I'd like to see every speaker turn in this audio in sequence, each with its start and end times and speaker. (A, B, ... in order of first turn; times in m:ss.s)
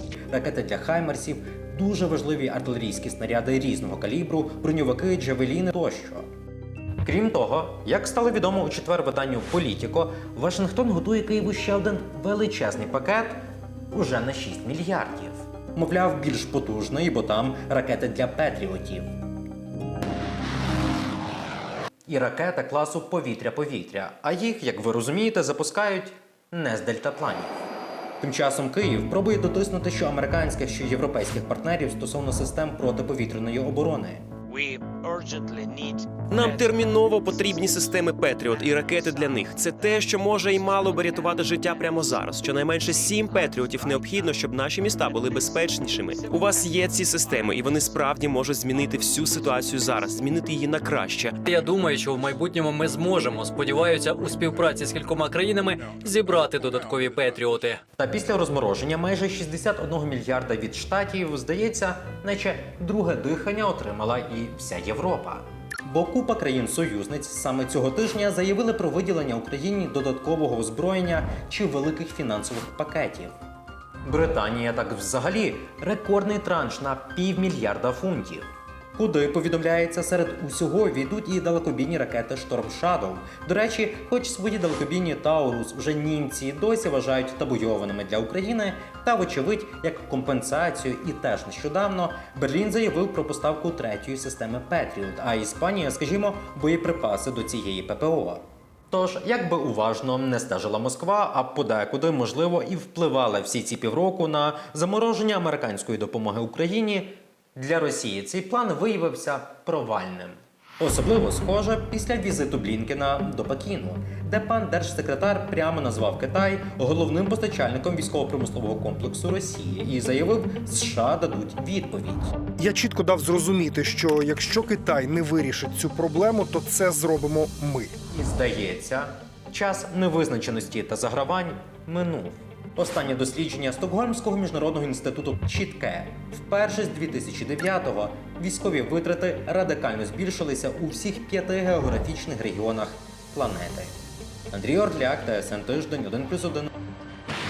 0:00.3-0:06.2 A
0:07.0-0:19.1 A
0:22.1-0:27.7 A
0:28.2-0:34.2 A
0:36.3-0:51.4 B
0:36.4-0:37.6 C
0:51.4-0:57.8 C
0:58.0-1:13.3 A
1:14.0-2:02.3 A
2:02.6-2:07.9 D
2:08.1-2:24.0 A
2:24.5-2:26.7 A